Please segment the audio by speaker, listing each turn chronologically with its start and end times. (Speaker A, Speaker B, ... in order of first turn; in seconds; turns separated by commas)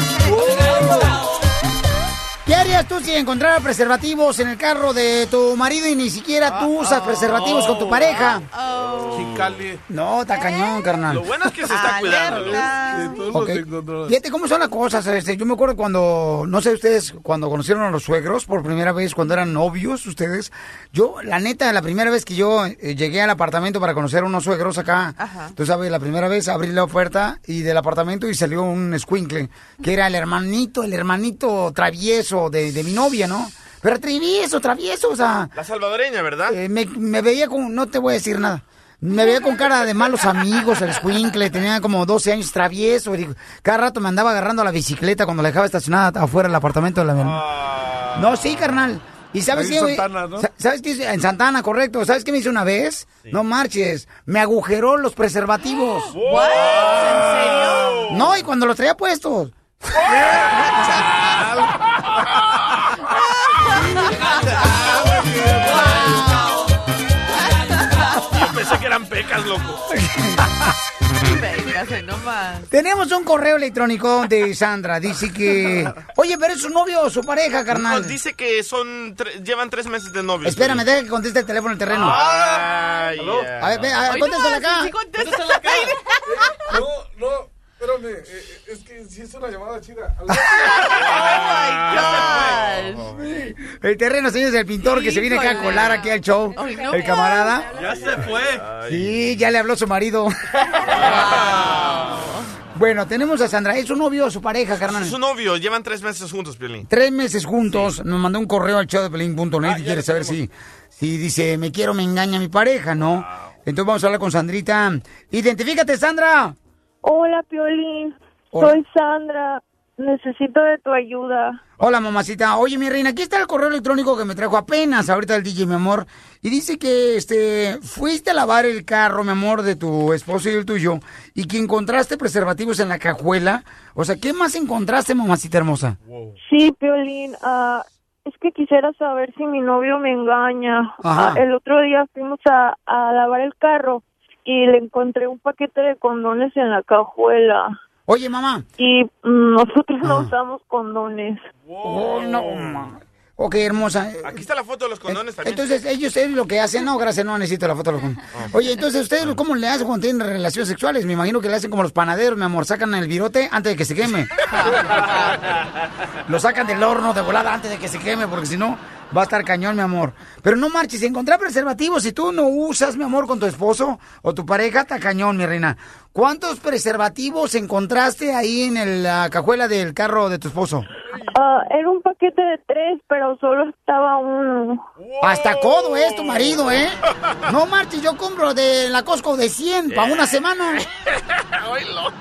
Speaker A: 2.5-8.4, Speaker B: 6.5-8.1, Speaker C: 8.5-9.3, Speaker B: 9.1-9.8, Speaker A: 9.9-11.5, Speaker C: 10.4-10.7, Speaker D: 11.1-12.7, Speaker C: 11.7-13.3, Speaker B: 12.3-14.1, Speaker A: 13.3-35.5, Speaker C: 25.2-25.5, Speaker D: 35.5-36.5, Speaker A: 36.5-47.4, Speaker D: 47.2-48.6, Speaker A: 48.1-56.1, Speaker B: 49.5-50.5, Speaker C: 56.2-58.0, Speaker D: 56.3-56.9, Speaker B: 56.8-57.8, Speaker A: 58.1-59.5, Speaker B: 60.1-61.6, Speaker B: 64.7-66.1, Speaker D: 68.3-69.8, Speaker A: 69.9-70.5, Speaker C: 71.2-72.7, Speaker A: 72.7-78.1, Speaker D: 77.7-80.8, Speaker A: 80.4-82.2, Speaker D: 82.0-84.0, Speaker B: 82.0-83.5, Speaker A: 83.6-84.9, Speaker C: 84.0-85.9, Speaker B: 85.2-85.6, Speaker B: 86.7-92.6, Speaker A: 90.3-90.7, Speaker C: 90.7-93.1, Speaker A: 93.3-97.7, Speaker C: 94.8-97.5, Speaker D: 97.9-99.2, Speaker B: 97.9-98.6, Speaker A: 98.8-100.3, Speaker D: 100.9-102.1, Speaker A: 101.0-101.3, Speaker A: 102.7-105.2, Speaker D: 104.9-106.9, Speaker A: 106.9-116.5, Speaker E: 117.0-121.6, Speaker A: 118.5-118.8, Speaker A: 121.8-136.0, Speaker E: 136.4-147.7, Speaker A: 141.0-141.4, Speaker A: 148.1-148.7, Speaker E: 148.8-151.5, Speaker A: 150.0-150.3, Speaker D: 151.7-152.8, Speaker A: 151.8-154.4, Speaker D: 154.2-155.7, Speaker A: 155.1-164.3, Speaker A: 166.3-180.9, Speaker E: 181.3-184.8, Speaker D: 185.0-186.5, Speaker A: 185.2-190.8, Speaker D: 189.9-190.4, Speaker D: 191.6-192.1